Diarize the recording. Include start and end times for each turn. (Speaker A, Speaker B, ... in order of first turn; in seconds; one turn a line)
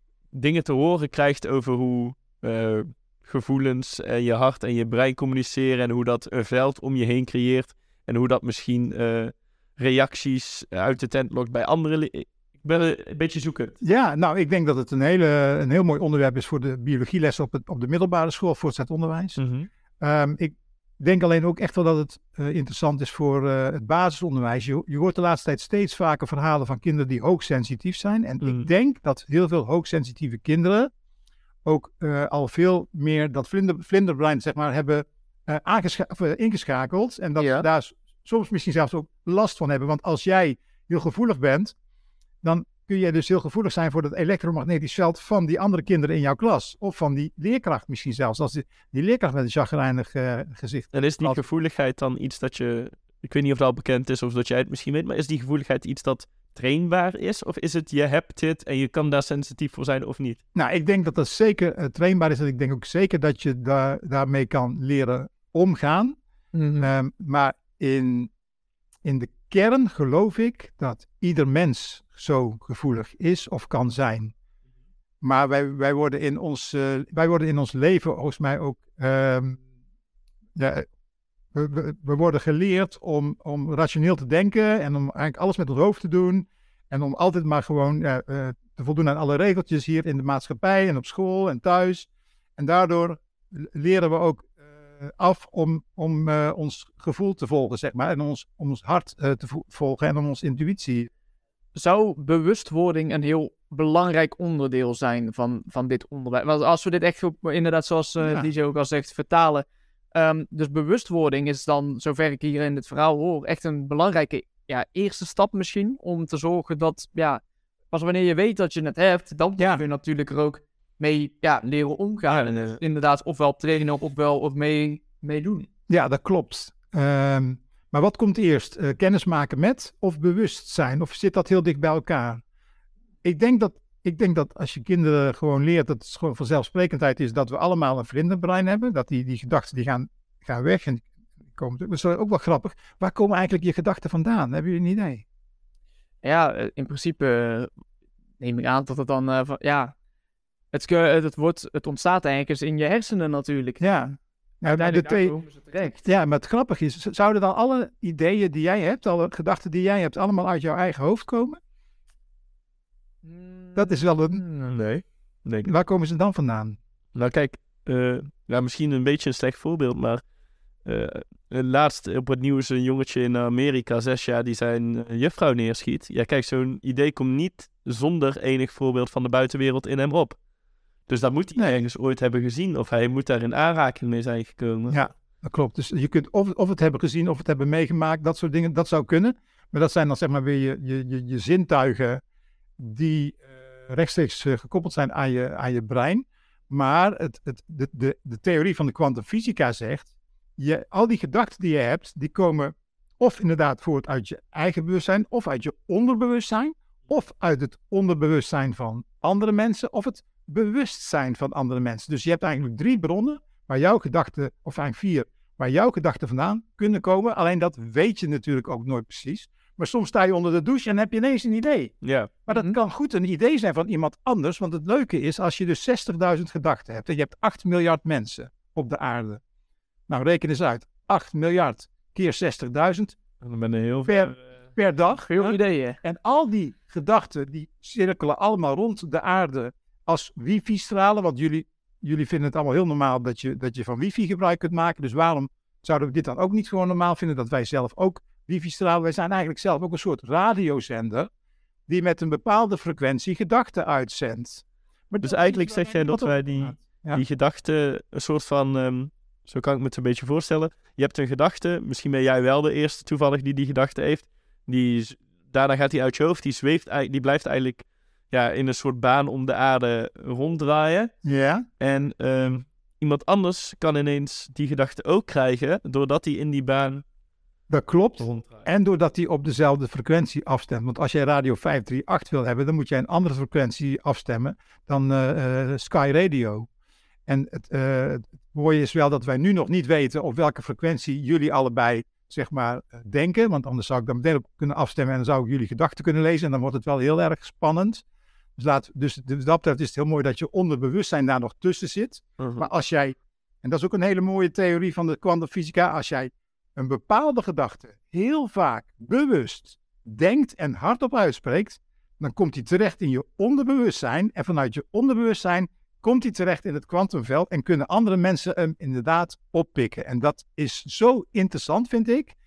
Speaker A: 0.3-13.8
Speaker B: 13.8-19.4
Speaker A: 19.4-19.7
Speaker B: 20.0-30.9
Speaker A: 28.4-28.7
Speaker B: 31.6-41.8
Speaker C: 37.4-37.7
Speaker B: 42.4-51.4
Speaker A: 50.9-60.4
Speaker B: 60.5-66.2
Speaker C: 66.5-66.9
Speaker B: 66.8-68.3
Speaker B: 69.0-74.3
Speaker B: 75.2-79.6
Speaker B: 80.6-80.9
Speaker B: 81.5-101.1
Speaker C: 101.8-117.4
Speaker B: 108.2-108.5
Speaker C: 117.9-125.7
Speaker A: 122.3-122.8
Speaker B: 125.9-132.4
Speaker B: 133.2-145.2
Speaker C: 146.2-147.7
Speaker C: 148.4-149.9
Speaker C: 150.7-153.8
Speaker B: 153.8-161.6
Speaker C: 154.6-156.0
Speaker C: 163.2-164.0
Speaker B: 163.8-164.4
Speaker A: 164.5-165.7
Speaker B: 165.7-166.8
Speaker A: 167.2-170.2
Speaker A: 170.8-180.4
Speaker A: 181.1-185.0
Speaker B: 184.9-192.2
Speaker B: 192.8-221.9
Speaker A: 222.0-222.3
Speaker B: 222.5-229.4
Speaker C: 222.5-222.8
Speaker B: 230.1-233.2
Speaker A: 233.4-234.4
Speaker B: 234.1-235.3
Speaker C: 235.2-236.0
Speaker B: 236.0-251.3
Speaker B: 251.9-257.2
Speaker A: 255.2-271.1
Speaker B: 271.2-271.7
Speaker A: 271.8-277.0
Speaker B: 277.7-286.7
Speaker A: 278.2-278.6
Speaker B: 287.3-298.0
Speaker B: 298.6-322.4
Speaker A: 302.4-302.7